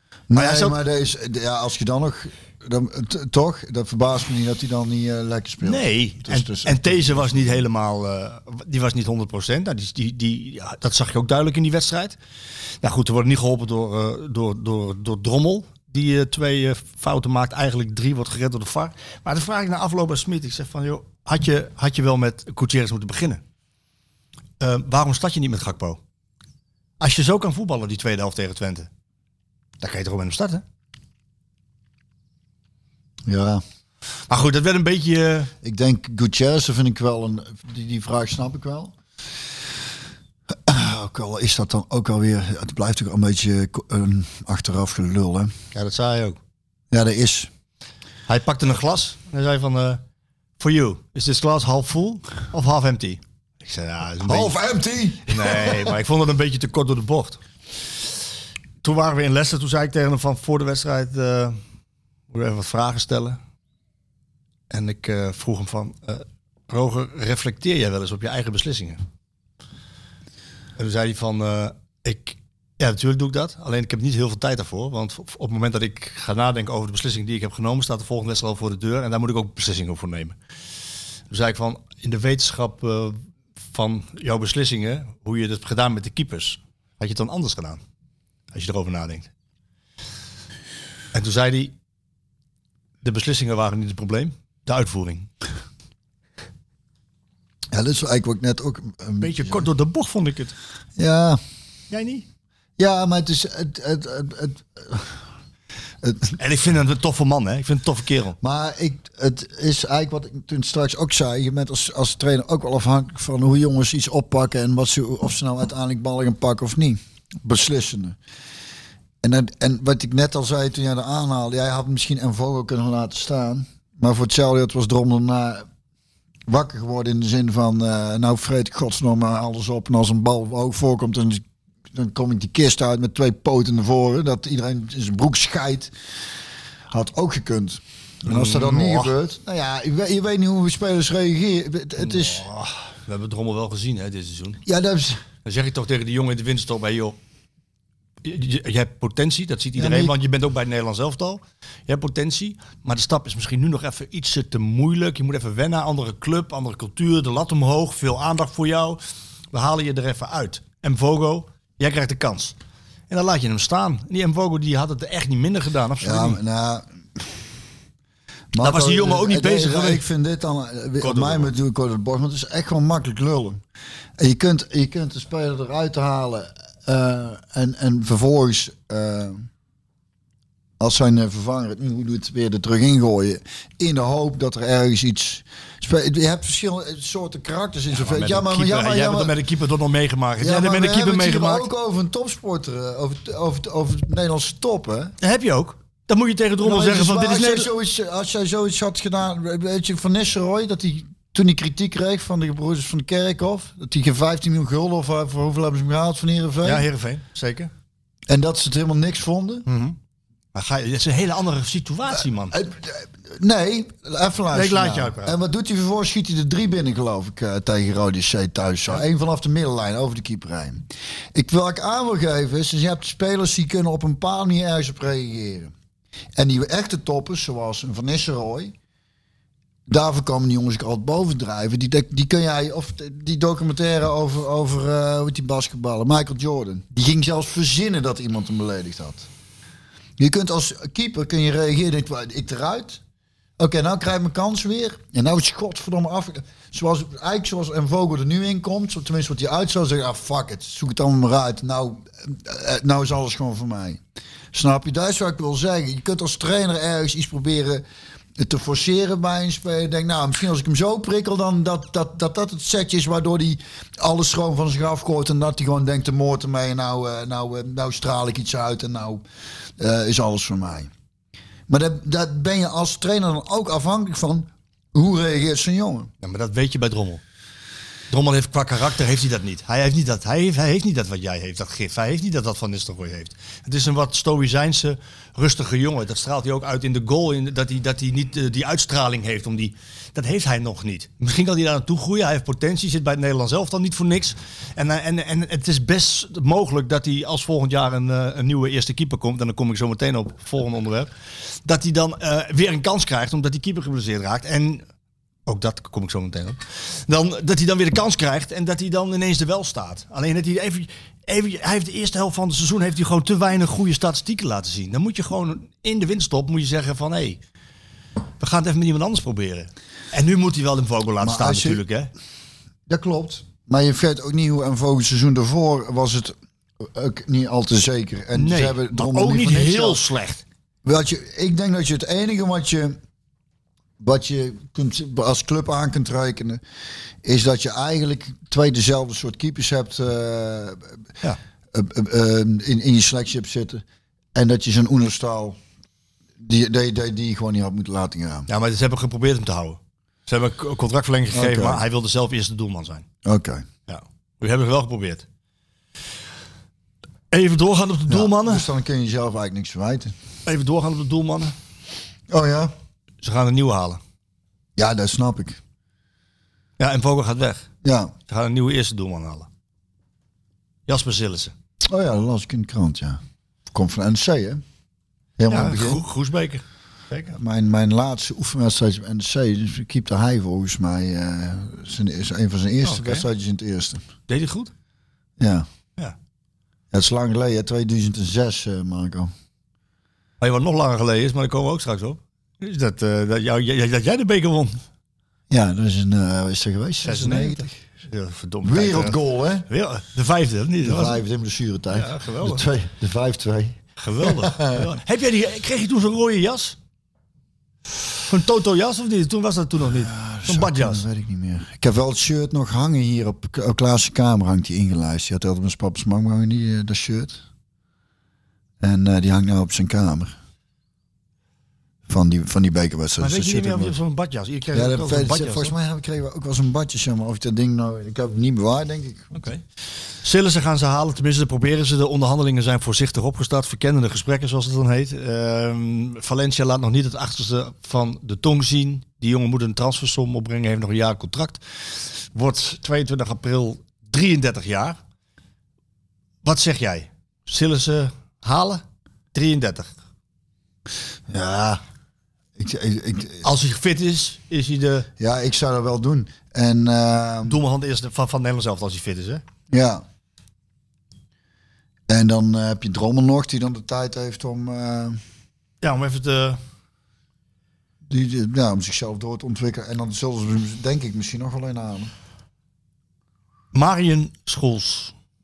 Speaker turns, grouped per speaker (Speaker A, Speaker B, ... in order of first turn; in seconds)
Speaker A: 0.3-7.6, 33.3-33.6, 35.6-38.9, 40.5-45.5, 46.9-47.5, 54.2-56.0, 97.7-99.7, 101.0-101.4, 102.8-105.2, 106.0-106.3, 108.4-118.2, 119.2-125.7, 126.5-135.9, 136.9-142.4, 144.7-145.2, 149.8-150.1, 166.0-167.3, 168.5-173.6, 174.2-179.5, 180.8-189.4, 190.4-195.2, 196.6-206.9, 208.3-209.7, 212.5-225.7, 226.4-228.8, 229.9-239.3, 240.2-243.0, 243.6-254.0, 254.5-257.9, 258.4-269.2, 269.8-270.9, 271.7-276.1, 321.2-321.8, 322.9-330.0, 330.9-333.0, 334.0-336.6, 337.2-341.0, 341.7-343.8, 344.4-345.6, 346.4-348.5, 351.3-351.8, 353.2-353.7, 358.1-360.1, 362.3-362.7, 364.8-365.6, 367.8-368.1, 371.9-373.2, 373.7-374.6, 375.4-376.0, 377.3-384.0, 385.4-385.7, 386.9-389.3, 395.5-397.8, 398.6-399.7, 400.8-404.9, 410.0-417.4, 418.8-420.3, 422.1-424.0, 424.7-429.5, 451.3-451.8, 452.6-453.5, 455.2-457.6, 459.7-460.0, 462.1-465.2, 468.1-472.1
Speaker B: 0.3-0.8, 5.6-12.2, 12.8-23.4, 24.6-26.0, 27.0-28.9, 29.8-30.6, 34.3-35.5, 45.7-46.4, 48.3-50.0, 50.6-54.5, 55.3-57.4, 58.8-61.6, 62.3-63.4, 64.7-69.0, 70.8-80.3, 81.3-83.2, 83.7-87.8, 88.5-89.3, 91.1-91.7, 93.0-95.3, 99.2-100.5, 101.9-102.2, 106.3-108.4, 138.3-139.1, 142.0-144.6, 145.4-147.2, 148.2-159.0, 159.5-162.6, 163.1-166.4, 168.6-170.0, 171.0-171.5, 187.9-191.7, 195.2-197.7, 206.6-207.7, 209.7-210.0, 210.5-212.6, 214.5-215.4, 276.2-277.2, 278.1-301.1, 301.6-304.8, 305.5-317.4, 318.4-322.1, 328.3-330.4, 348.5-353.1, 353.9-355.2, 357.3-358.7, 360.5-361.5, 363.2-364.0, 366.8-367.7, 368.3-369.5, 370.9-371.5, 375.5-377.3, 382.8-383.3, 384.3-384.7, 390.4-394.8, 397.0-401.2, 401.9-402.6, 404.0-406.8, 408.3-411.1, 423.2-425.7, 429.3-429.6, 430.2-445.0, 446.4-448.8, 449.3-449.9, 453.4-455.1, 457.5-459.4, 465.8-466.6, 473.7-475.1